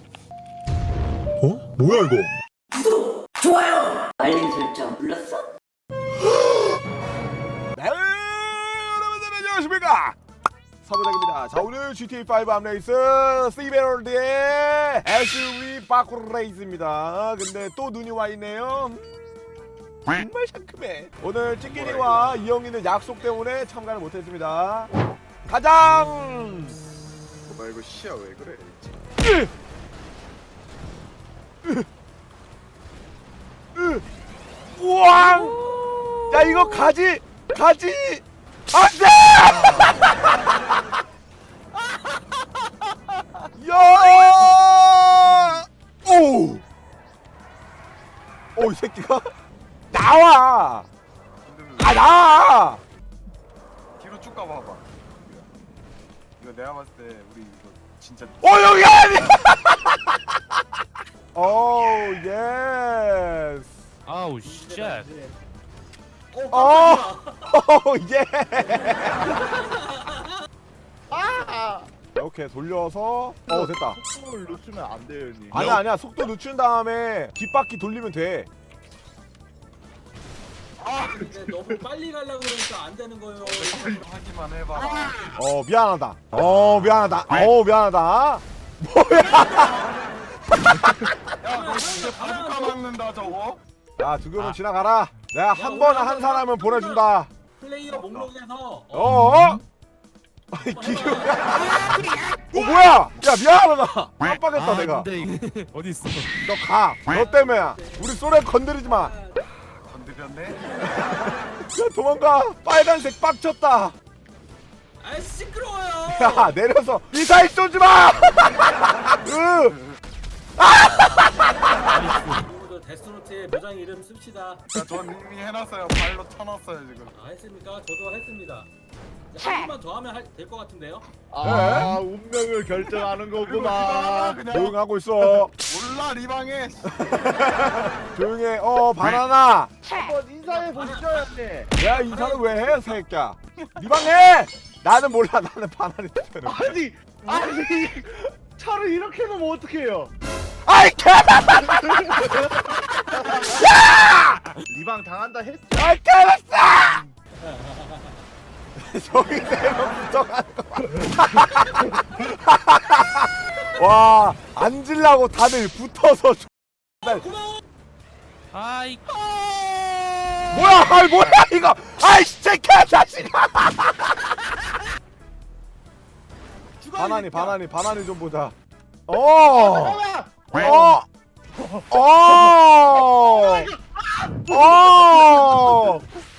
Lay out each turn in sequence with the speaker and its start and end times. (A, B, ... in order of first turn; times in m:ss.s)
0:01.4-0:02.3 A
0:02.7-0:05.4 B
0:07.7-0:10.2 A
0:10.8-0:24.9 A
0:21.6-0:22.4 C
0:25.5-0:26.8 A
0:27.4-0:29.0 C
0:29.2-0:29.5 A
0:33.8-0:34.0 A
0:34.7-0:35.6 A
0:35.3-0:36.1 D
0:36.3-0:40.4 A
0:39.6-0:39.9 C
0:43.5-0:46.6 A
0:44.0-0:44.5 C
0:48.6-0:49.3 A
0:49.9-0:50.9 A
0:51.4-0:52.2 C
0:51.8-0:52.8 A
0:54.0-0:55.5 C
0:56.4-0:59.3 C
0:58.4-1:00.2 A
1:01.3-1:03.8 A
1:04.0-1:05.1 D
1:04.4-1:05.4 E
1:06.3-1:07.5 E
1:06.5-1:09.3 A
1:08.9-1:10.3 E
1:11.1-1:11.9 F
1:12.2-1:14.0 A
1:13.5-1:15.6 F
1:15.5-1:18.5 A
1:20.8-1:21.2 C
1:20.9-1:24.0 E
1:23.4-1:25.4 C
1:25.3-1:29.8 A
1:29.4-1:30.1 C
1:30.5-1:31.2 A
1:31.4-1:33.6 C
1:31.5-1:32.8 E
1:34.0-1:37.3 A
1:35.5-1:39.1 E
1:37.9-1:38.3 C
1:38.9-1:39.6 A
1:40.5-1:45.1 A
1:40.7-1:41.5 E
1:41.6-1:42.7 D
1:44.5-1:46.4 D
1:46.4-1:49.1 A
1:47.1-1:49.5 E
1:49.8-1:50.6 C
1:50.9-1:54.0 A
1:55.0-1:56.6 E
1:56.1-1:59.8 A
2:00.6-2:01.7 A
2:01.9-2:02.5 D
2:01.9-2:04.6 E
2:04.7-2:07.1 C
2:07.1-2:08.7 E
2:09.3-2:11.1 E
2:11.3-2:14.4 F
2:11.4-2:12.0 A
2:12.8-2:14.8 C
2:14.5-2:15.5 A
2:15.4-2:17.6 C
2:16.9-2:19.7 A
2:19.8-2:21.7 F
2:20.4-2:22.8 E
2:21.8-2:26.8 A
2:26.4-2:30.1 F
2:30.6-2:34.4 A
2:34.6-2:35.9 F
2:35.7-2:37.0 A
2:37.4-2:38.2 E
2:38.7-2:47.2 A
2:47.0-2:47.6 E
2:48.5-2:50.4 D
2:50.5-2:54.4 A
2:56.8-2:57.6 E
2:57.0-2:58.5 A
2:59.1-3:01.0 A
2:59.5-3:00.9 F
3:01.6-3:01.9 F
3:01.9-3:03.7 A
3:03.2-3:05.9 F
3:04.4-3:06.0 A